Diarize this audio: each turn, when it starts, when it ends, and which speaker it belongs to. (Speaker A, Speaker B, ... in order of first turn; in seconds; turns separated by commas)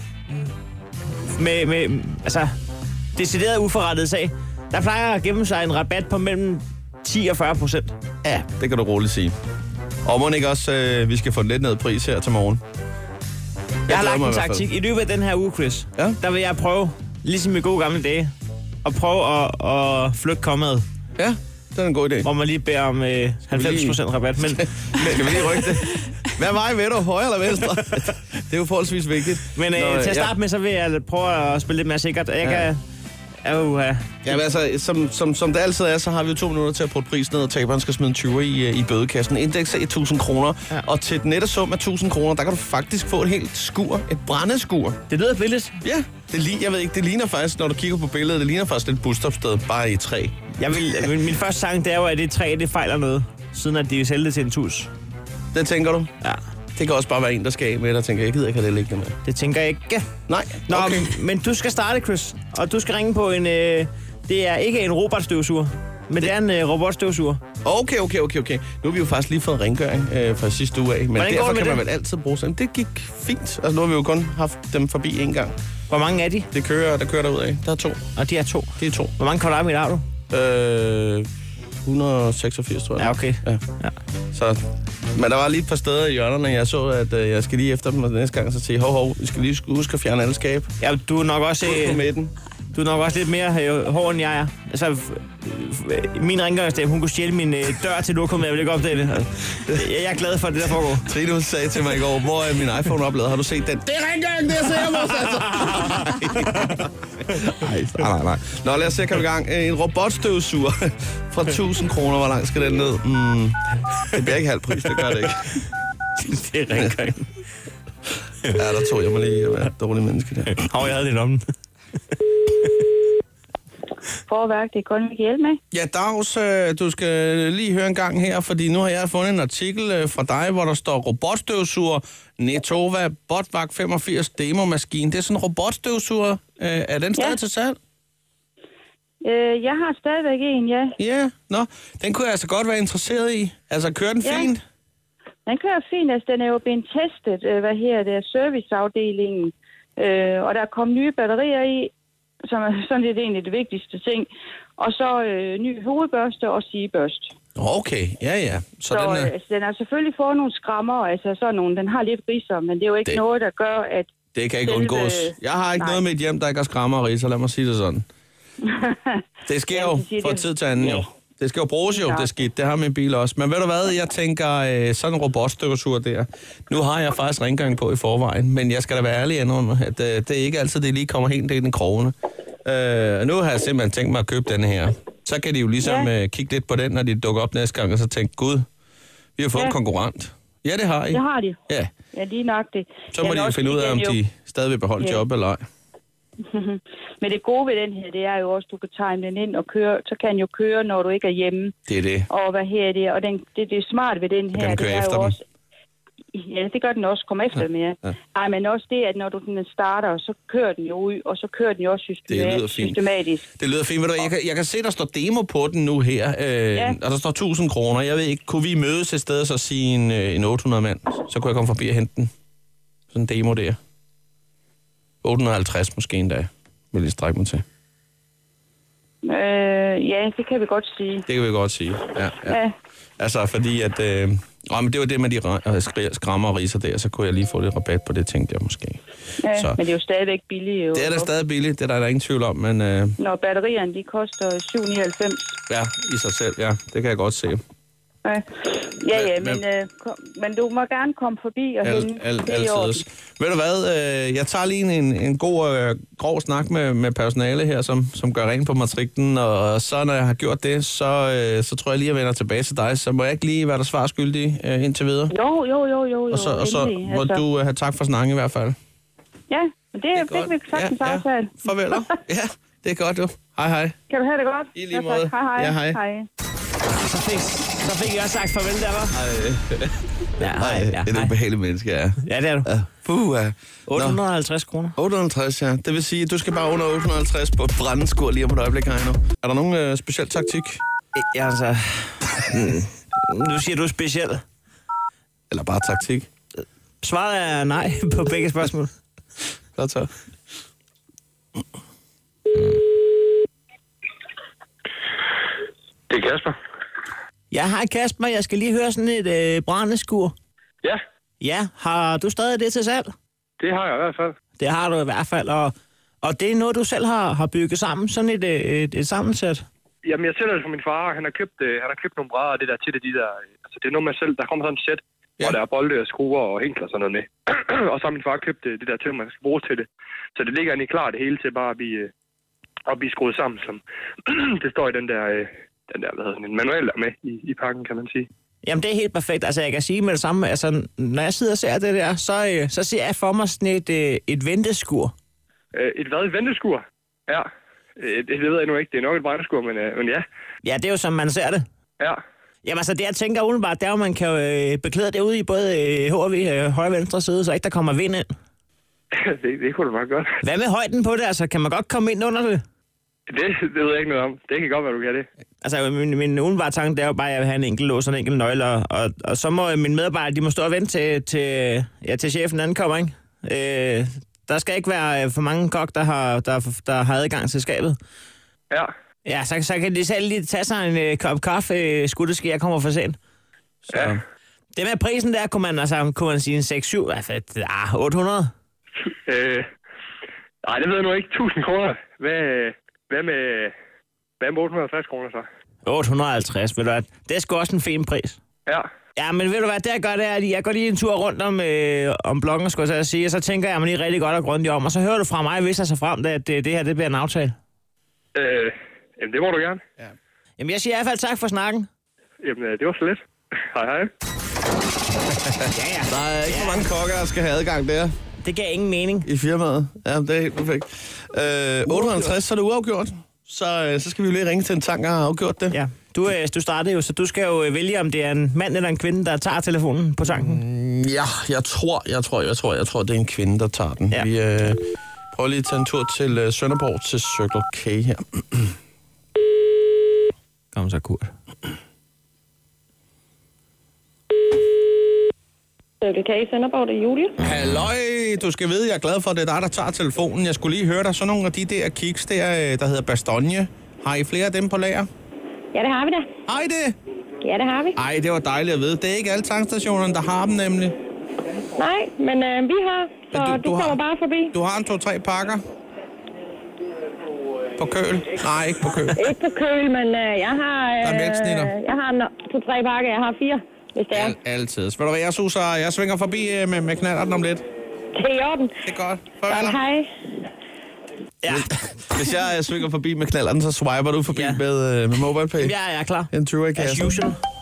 Speaker A: 1.3-2.5, Speaker A: 3.1-8.0, Speaker B: 8.2-9.3, Speaker B: 10.1-12.6, Speaker B: 13.9-14.7, Speaker A: 13.9-18.3, Speaker A: 18.8-20.9, Speaker B: 21.2-22.3, Speaker A: 22.2-25.0, Speaker B: 23.5-30.3, Speaker A: 29.5-32.8, Speaker B: 32.4-32.7, Speaker A: 33.4-34.3, Speaker B: 34.2-45.0, Speaker A: 45.1-45.8, Speaker B: 45.8-50.4, Speaker A: 50.6-54.9, Speaker B: 55.5-56.1, Speaker B: 56.8-59.2, Speaker A: 59.2-60.1, Speaker B: 60.3-61.2, Speaker A: 60.7-67.4, Speaker B: 67.6-75.5, Speaker A: 71.2-71.8, Speaker A: 75.9-76.5, Speaker B: 76.5-78.1, Speaker A: 78.2-80.0, Speaker B: 78.8-79.1, Speaker B: 80.3-81.3, Speaker B: 81.8-83.6, Speaker A: 83.0-83.9, Speaker B: 84.3-90.7, Speaker A: 90.8-92.0, Speaker B: 91.6-92.3, Speaker A: 92.7-101.1, Speaker B: 101.0-115.5, Speaker A: 105.6-105.9, Speaker A: 116.2-117.3, Speaker B: 118.5-120.6, Speaker A: 120.5-121.4, Speaker C: 124.3-125.6, Speaker B: 125.7-137.8, Speaker C: 139.2-141.0, Speaker B: 141.0-144.6, Speaker C: 144.2-144.5, Speaker C: 145.5-151.9, Speaker C: 152.5-157.3, Speaker B: 157.6-159.3, Speaker C: 158.9-164.1, Speaker B: 164.3-168.1, Speaker C: 164.7-166.0, Speaker C: 168.6-171.1, Speaker B: 169.5-182.1, Speaker C: 171.9-172.3, Speaker B: 182.7-188.7, Speaker C: 185.8-186.1, Speaker B: 189.4-191.9, Speaker C: 191.1-191.6, Speaker C: 192.1-194.2, Speaker B: 193.1-195.6, Speaker C: 196.5-201.8, Speaker B: 201.9-202.3, Speaker C: 202.3-205.4, Speaker B: 204.5-205.4, Speaker C: 206.3-213.5, Speaker B: 212.3-213.0, Speaker B: 213.6-222.3, Speaker B: 223.1-223.8, Speaker B: 225.2-227.6, Speaker C: 229.2-231.3, Speaker B: 231.3-232.6, Speaker C: 232.5-232.7, Speaker B: 233.2-239.0, Speaker C: 239.4-241.3, Speaker B: 240.9-243.2, Speaker C: 243.2-245.6, Speaker B: 245.7-247.6, Speaker C: 248.2-253.0, Speaker B: 249.1-249.6, Speaker B: 251.8-265.3, Speaker C: 265.3-267.4, Speaker B: 266.3-268.8, Speaker C: 269.5-272.1, Speaker B: 270.1-274.0, Speaker C: 274.1-276.3, Speaker B: 274.8-276.0, Speaker A: 276.9-279.2, Speaker B: 279.1-284.2, Speaker A: 280.4-281.4, Speaker A: 282.2-282.7, Speaker A: 283.9-284.9, Speaker B: 285.0-290.8, Speaker A: 291.1-294.4, Speaker B: 295.5-296.3, Speaker A: 297.0-298.9, Speaker B: 299.8-300.1, Speaker D: 306.1-306.5, Speaker A: 307.5-310.4, Speaker A: 311.4-313.1, Speaker D: 313.6-314.4, Speaker A: 314.6-319.6, Speaker D: 320.1-332.1, Speaker D: 332.9-338.3, Speaker A: 338.6-345.1, Speaker D: 345.7-347.4, Speaker D: 348.0-350.2, Speaker A: 350.6-351.6, Speaker A: 352.6-358.3, Speaker D: 359.1-360.3, Speaker A: 360.4-362.6, Speaker D: 363.3-365.3, Speaker A: 365.6-377.9, Speaker A: 379.2-383.2, Speaker B: 383.9-384.2, Speaker A: 384.8-388.5, Speaker D: 389.3-389.6, Speaker D: 390.6-393.7, Speaker D: 394.4-395.4, Speaker A: 395.9-398.4, Speaker A: 399.2-407.6, Speaker D: 408.4-409.8, Speaker A: 410.6-411.9, Speaker D: 412.4-413.2, Speaker D: 413.7-414.1, Speaker B: 415.4-418.1, Speaker A: 415.7-416.9, Speaker A: 418.4-419.3, Speaker B: 419.2-425.8, Speaker A: 421.9-422.3, Speaker A: 425.7-430.6, Speaker B: 430.2-438.7, Speaker A: 440.7-441.3, Speaker E: 446.0-447.4, Speaker B: 447.4-455.1, Speaker A: 447.4-447.9, Speaker E: 455.7-456.3, Speaker B: 456.5-456.9, Speaker E: 457.4-458.0, Speaker B: 458.0-461.0, Speaker E: 461.8-464.6, Speaker B: 463.3-465.6, Speaker B: 467.8-469.3, Speaker E: 469.1-474.4, Speaker B: 471.0-471.7, Speaker B: 474.1-477.6, Speaker E: 478.1-478.7, Speaker B: 478.8-479.8, Speaker E: 479.5-480.1, Speaker A: 481.4-481.9, Speaker B: 481.5-485.8, Speaker A: 484.3-484.6, Speaker A: 485.6-487.4, Speaker B: 486.3-487.4